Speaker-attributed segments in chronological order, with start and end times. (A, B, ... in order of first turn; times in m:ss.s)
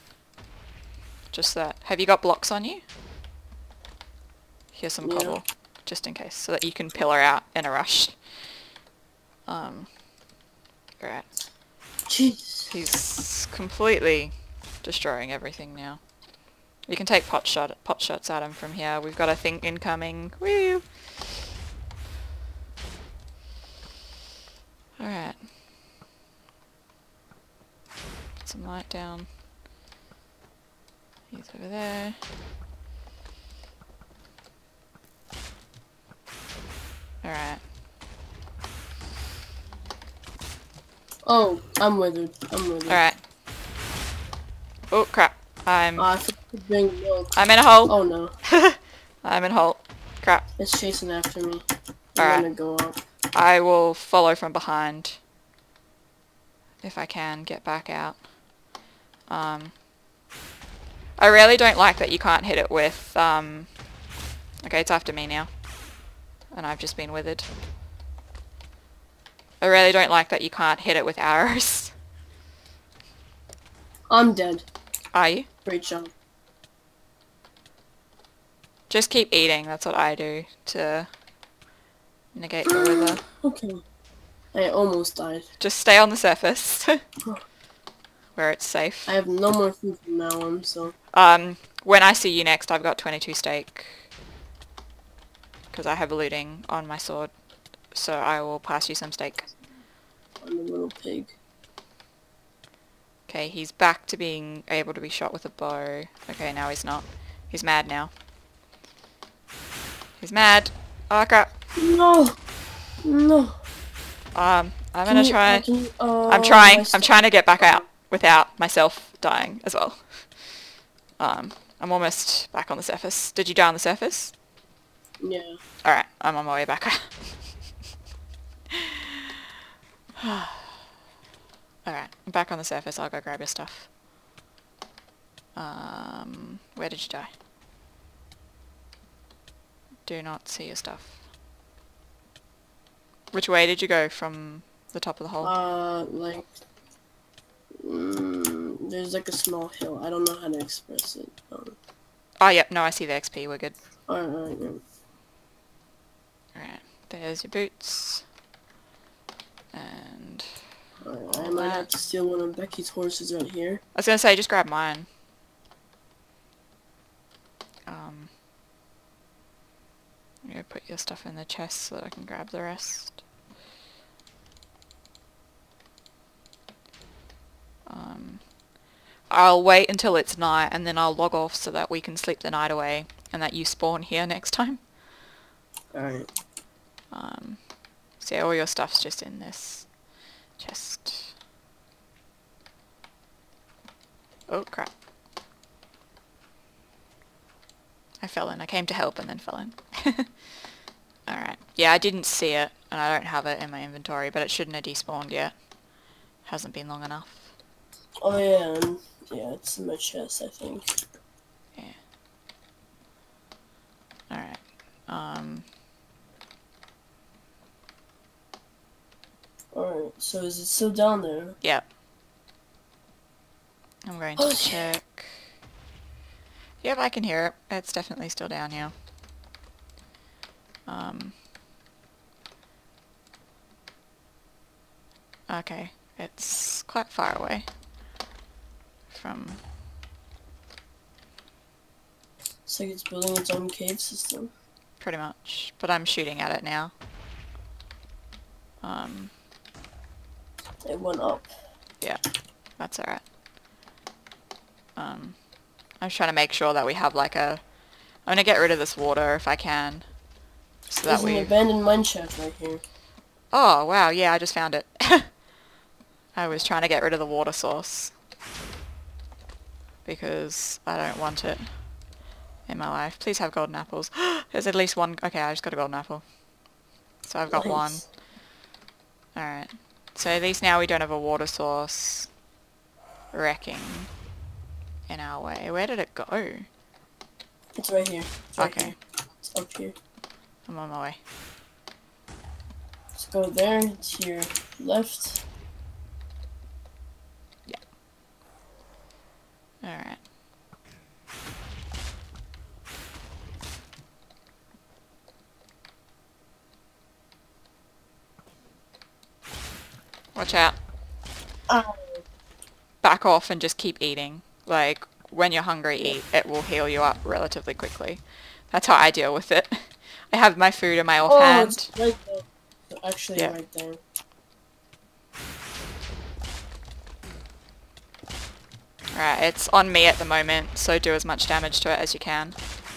0:01.3-0:02.8 A
0:04.7-0:08.2 A
0:05.0-0:05.4 B
0:09.5-0:09.9 A
0:11.0-0:11.3 A
0:12.1-0:12.7 B
0:12.7-0:16.0 A
0:16.9-0:20.9 A
0:25.0-0:25.4 A
0:28.4-0:29.3 A
0:31.3-0:32.2 A
0:37.2-0:37.6 A
0:41.3-0:43.0 B
0:42.9-0:43.2 A
0:44.9-0:46.1 A
0:46.0-0:48.3 B
0:47.4-0:50.5 A
0:50.6-0:53.0 B
0:52.2-0:52.5 A
0:53.3-0:55.2 A
0:56.8-0:58.2 A
0:59.3-0:59.7 A
1:01.2-1:03.7 A
1:04.6-1:05.5 A
1:06.5-1:07.5 A
1:09.6-1:11.9 A
1:14.1-1:14.7 B
1:15.1-1:15.5 A
1:15.7-1:16.1 B
1:18.9-1:21.1 A
1:22.3-1:23.2 A
1:22.7-1:23.8 B
1:24.5-1:25.5 B
1:25.6-1:27.0 A
1:28.4-1:29.2 A
1:29.1-1:31.0 B
1:31.1-1:34.1 A
1:35.7-1:37.3 A
1:37.9-1:39.5 A
1:40.4-1:41.3 B
1:43.3-1:48.1 A
1:50.2-1:51.5 A
1:51.8-1:52.4 B
1:53.0-1:53.6 B
1:54.4-1:55.6 A
1:55.1-1:57.8 B
1:56.3-2:00.3 A
2:01.2-2:04.3 A
2:05.2-2:05.6 B
2:05.8-2:07.4 A
2:08.7-2:09.3 A
2:10.2-2:10.9 A
2:11.8-2:13.9 A
2:15.6-2:17.3 A
2:20.1-2:21.2 A
2:23.3-2:25.6 A
2:25.4-2:26.5 B
2:27.8-2:31.8 B
2:32.4-2:33.8 A
2:34.1-2:34.8 B
2:36.6-2:38.2 A
2:39.7-2:40.6 A
2:41.0-2:43.8 B
2:41.3-2:41.9 A
2:44.0-2:45.1 A
2:47.9-2:48.3 A
2:50.4-2:53.2 A
2:57.9-2:58.4 A
2:59.3-3:04.8 A
3:05.9-3:06.3 B
3:07.1-3:07.6 A
3:08.2-3:09.9 A
3:10.6-3:11.3 A
3:14.5-3:14.9 A
3:18.2-3:20.3 A
3:21.3-3:25.5 A
3:26.4-3:27.5 A
3:28.2-3:31.0 B
3:34.3-3:35.6 A
3:39.7-3:41.6 B
3:44.1-3:45.4 A
3:44.4-3:44.9 B
3:46.8-3:48.9 A
3:50.9-3:51.4 A
3:55.5-3:57.7 A
3:59.1-3:59.6 A
4:02.7-4:04.5 B
4:05.0-4:06.9 A
4:08.8-4:09.3 A
4:10.8-4:11.5 B
4:12.8-4:13.2 A
4:15.0-4:15.4 A
4:16.0-4:17.6 A
4:18.3-4:20.1 A
4:20.9-4:21.5 A
4:21.1-4:22.8 B
4:23.5-4:25.3 A
4:26.4-4:28.1 A
4:30.0-4:31.7 A
4:32.7-4:36.3 A
4:37.2-4:38.0 A
4:37.5-4:38.0 B
4:39.4-4:42.3 A
4:43.3-4:44.1 A
4:45.1-4:46.7 A
4:47.8-4:50.0 B
4:48.6-4:49.0 A
4:50.7-4:51.2 A
4:53.2-4:55.4 B
4:59.8-5:00.2 A
5:10.4-5:10.8 A
5:11.7-5:12.2 B
5:13.0-5:21.9 A
5:21.3-5:24.0 B
5:29.1-5:32.6 A